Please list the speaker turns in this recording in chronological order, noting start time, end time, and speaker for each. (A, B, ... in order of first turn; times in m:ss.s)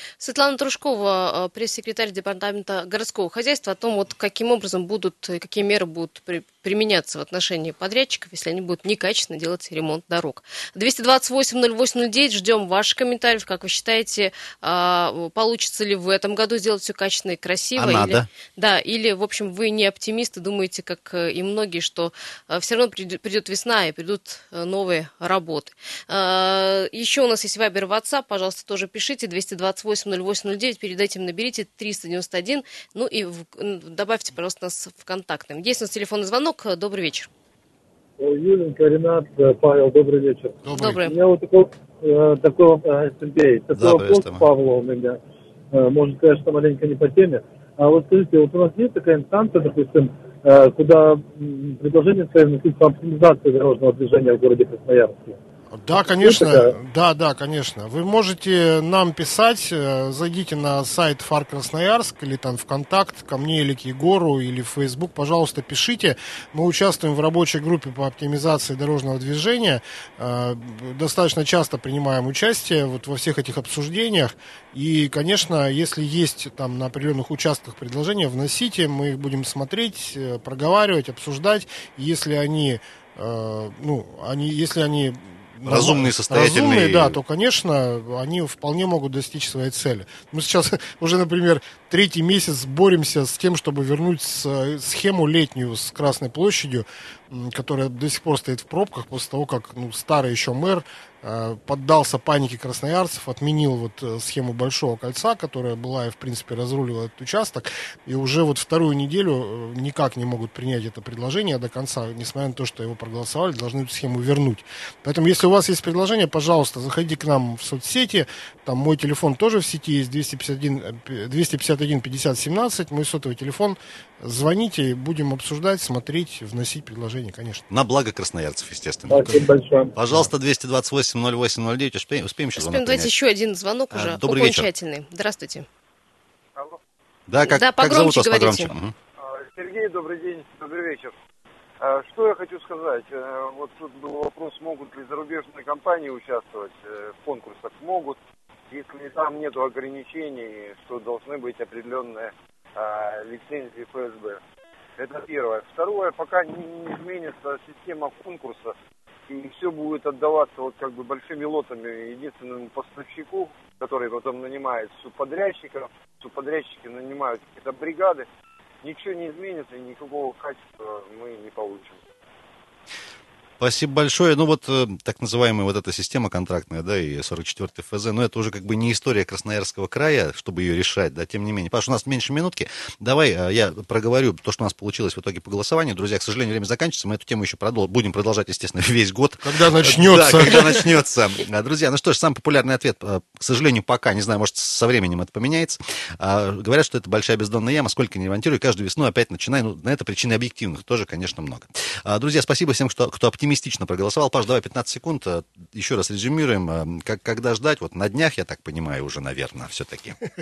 0:00.2-0:37.3 A
0:17.8-0:18.3 B
0:38.2-0:45.2 C
0:40.7-0:41.0 D
0:40.7-0:41.2 A
0:43.7-0:44.5 B
0:45.7-0:55.4 C
0:55.7-2:07.6 D
0:56.0-0:56.8 C
1:25.7-1:27.2 B
2:07.7-2:09.4 B
2:09.1-2:10.0 C
2:10.0-2:13.1 B
2:12.6-2:15.7 A
2:13.9-2:14.7 B
2:17.3-2:18.9 B
2:17.5-2:18.7 A
2:19.2-2:21.1 E
2:21.8-2:28.2 E
2:28.7-2:34.4 E
2:35.0-2:38.8 E
2:39.3-2:48.3 E
2:48.8-2:52.0 E
2:53.6-3:30.2 B
3:09.4-3:10.9 D